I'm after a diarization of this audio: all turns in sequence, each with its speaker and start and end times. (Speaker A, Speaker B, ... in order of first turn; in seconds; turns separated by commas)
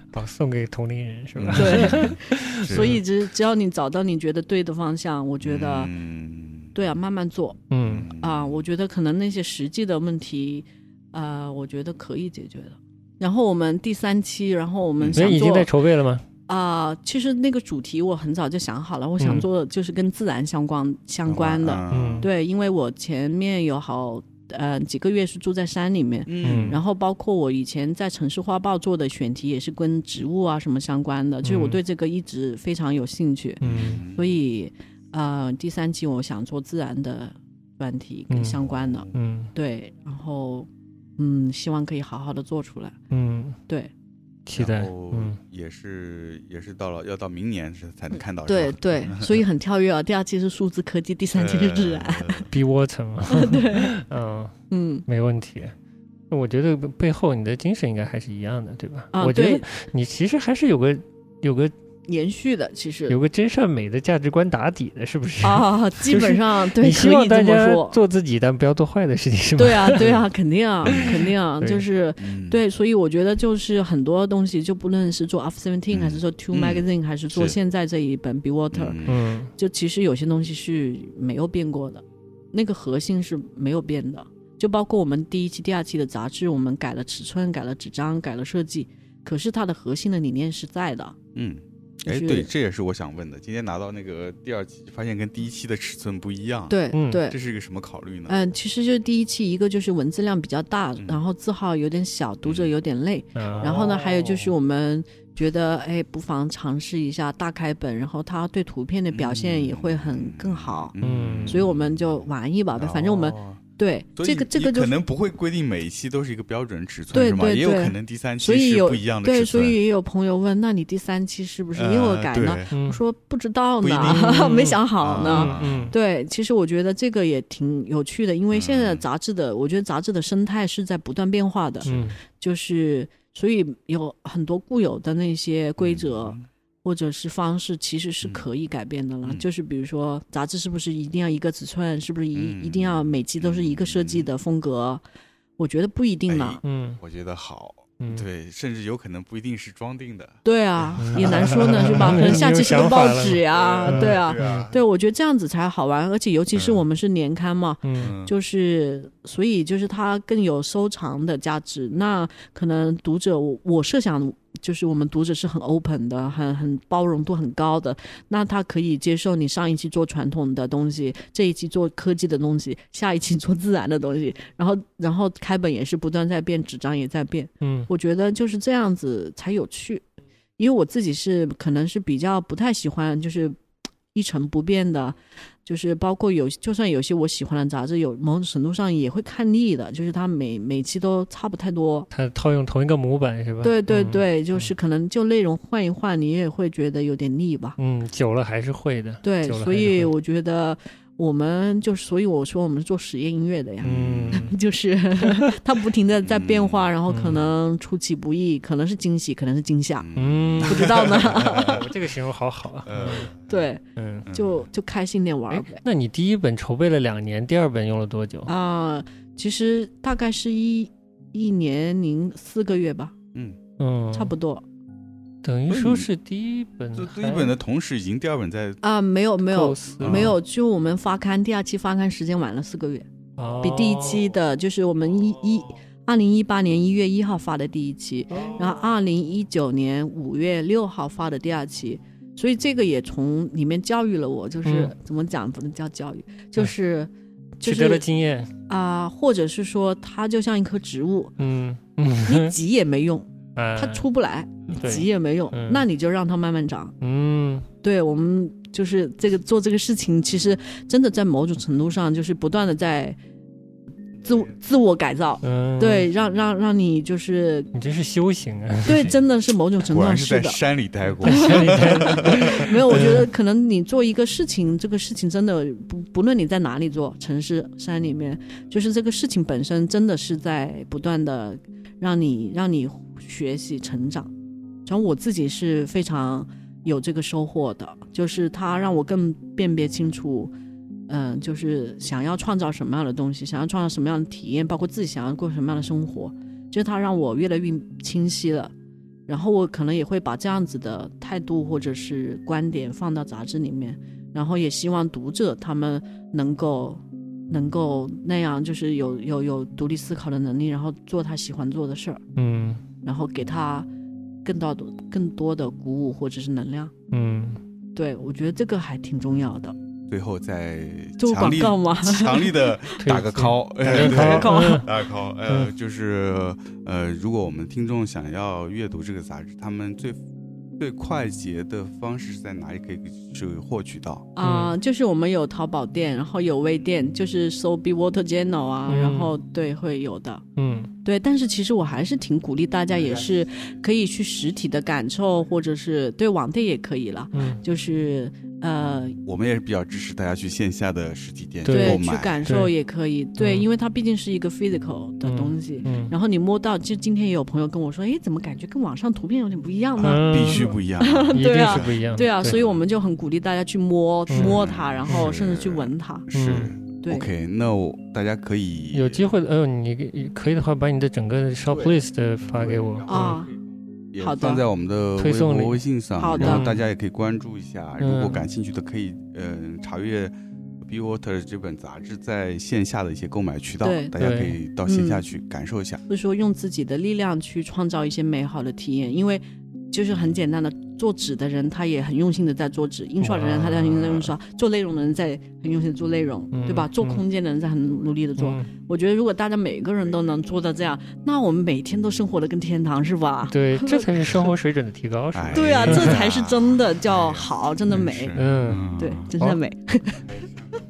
Speaker A: 0.1-3.0, Speaker B: 1.4-3.0, Speaker C: 1.5-5.9, Speaker B: 5.4-6.7, Speaker C: 6.7-7.6, Speaker A: 7.7-8.1, Speaker B: 7.8-8.6, Speaker C: 8.2-15.7, Speaker B: 15.0-15.4, Speaker A: 15.2-16.2, Speaker C: 16.5-43.0, Speaker A: 19.2-19.4, Speaker B: 21.3-22.3, Speaker A: 21.9-22.3, Speaker B: 26.3-26.8, Speaker A: 26.4-26.8, Speaker A: 31.4-31.8, Speaker B: 33.6-34.3, Speaker A: 33.6-34.0, Speaker A: 38.3-38.6, Speaker B: 38.6-39.2, Speaker A: 39.1-39.5, Speaker A: 43.1-43.6, Speaker A: 44.5-45.4, Speaker B: 44.5-49.4, Speaker C: 48.1-52.5, Speaker B: 51.3-52.5, Speaker A: 52.5-54.5, Speaker C: 53.3-53.9, Speaker C: 54.7-55.0, Speaker A: 55.1-55.7, Speaker A: 56.3-61.7, Speaker C: 59.1-59.6, Speaker C: 62.1-63.2, Speaker A: 63.1-70.2, Speaker C: 65.4-68.0, Speaker C: 69.5-91.2, Speaker B: 70.8-71.2, Speaker A: 70.8-71.8, Speaker B: 72.2-72.6, Speaker B: 75.9-77.5, Speaker B: 78.7-79.2, Speaker A: 79.0-79.5, Speaker B: 91.3-98.3, Speaker C: 92.0-92.5, Speaker C: 96.7-97.4, Speaker A: 96.9-97.2, Speaker C: 98.3-110.9, Speaker B: 102.4-102.7, Speaker A: 103.3-104.5, Speaker B: 109.1-113.6, Speaker A: 111.0-111.6, Speaker C: 111.5-115.0, Speaker B: 114.2-119.8, Speaker C: 117.1-145.0, Speaker B: 121.7-122.7, Speaker A: 122.7-123.0, Speaker B: 123.8-124.4, Speaker A: 124.0-125.9, Speaker B: 125.0-125.9, Speaker B: 128.5-129.0, Speaker A: 131.8-132.2, Speaker B: 135.8-136.5, Speaker B: 142.3-144.3, Speaker C: 145.6-146.6, Speaker B: 146.3-152.6, Speaker A: 146.6-147.0, Speaker A: 148.0-148.3, Speaker C: 150.4-180.0, Speaker A: 151.0-154.7, Speaker B: 153.4-154.8, Speaker B: 156.5-156.8, Speaker A: 157.8-158.1, Speaker B: 158.0-158.3, Speaker A: 177.6-177.9, Speaker C: 180.6-183.6, Speaker C: 184.1-192.1, Speaker A: 192.1-194.7, Speaker C: 193.6-197.8, Speaker A: 197.8-200.1, Speaker C: 199.2-210.1, Speaker B: 203.8-204.5, Speaker A: 203.8-204.5, Speaker A: 205.2-205.4, Speaker B: 206.2-206.9, Speaker A: 207.1-207.4, Speaker B: 210.0-211.9, Speaker A: 210.2-213.3, Speaker C: 210.6-211.8, Speaker B: 212.8-213.6, Speaker C: 213.4-215.8, Speaker A: 213.9-214.3, Speaker B: 214.2-214.6, Speaker A: 215.5-218.5, Speaker C: 218.4-223.1, Speaker A: 223.8-224.3, Speaker C: 224.1-224.6, Speaker A: 225.4-227.5, Speaker B: 225.7-226.1, Speaker B: 226.9-228.8, Speaker C: 228.8-233.1, Speaker A: 229.4-230.4, Speaker B: 230.0-230.3, Speaker A: 233.4-234.2, Speaker C: 233.6-248.0, Speaker A: 238.3-238.6, Speaker A: 244.6-244.9, Speaker A: 247.6-248.5, Speaker C: 248.7-251.3, Speaker A: 251.4-252.5, Speaker C: 252.2-256.9, Speaker A: 253.6-254.1, Speaker A: 254.7-255.8, Speaker A: 257.0-257.7, Speaker C: 257.8-263.2, Speaker C: 264.2-267.7, Speaker A: 265.4-266.1, Speaker A: 267.7-269.1, Speaker C: 268.8-270.6, Speaker B: 268.9-269.2, Speaker B: 269.8-272.8, Speaker A: 271.2-273.3, Speaker C: 271.2-284.3, Speaker C: 284.9-290.5, Speaker C: 291.1-298.7, Speaker C: 299.3-312.2, Speaker A: 312.4-312.8, Speaker C: 313.0-313.9, Speaker C: 314.4-316.9, Speaker A: 317.1-317.6, Speaker C: 317.9-319.7, Speaker B: 320.1-330.2, Speaker C: 321.2-322.9, Speaker A: 323.0-324.9, Speaker C: 323.9-324.9, Speaker B: 330.8-334.3, Speaker C: 334.4-340.4, Speaker A: 334.4-334.7, Speaker A: 338.9-339.3, Speaker A: 340.6-340.9, Speaker C: 341.0-349.2, Speaker A: 347.3-347.6, Speaker B: 349.2-352.5, Speaker A: 351.6-352.7, Speaker C: 351.7-366.3, Speaker A: 353.4-353.7, Speaker A: 355.2-356.1, Speaker A: 360.0-360.7, Speaker B: 360.0-362.8, Speaker A: 361.3-362.6, Speaker A: 364.3-365.3, Speaker B: 364.3-369.3, Speaker A: 366.3-366.7, Speaker C: 367.0-367.3, Speaker A: 368.9-373.4, Speaker C: 373.1-373.5, Speaker B: 374.1-386.0, Speaker C: 374.2-374.6, Speaker A: 375.2-375.8, Speaker C: 376.2-376.7, Speaker A: 376.4-376.8, Speaker A: 378.0-378.4, Speaker C: 383.8-384.1, Speaker A: 384.2-384.6, Speaker C: 384.9-385.2, Speaker C: 386.1-404.5, Speaker A: 393.2-394.3, Speaker A: 396.5-397.2, Speaker A: 398.4-398.7, Speaker A: 403.5-406.2, Speaker B: 405.3-409.6, Speaker C: 405.5-408.4, Speaker A: 408.3-408.8, Speaker C: 408.9-410.4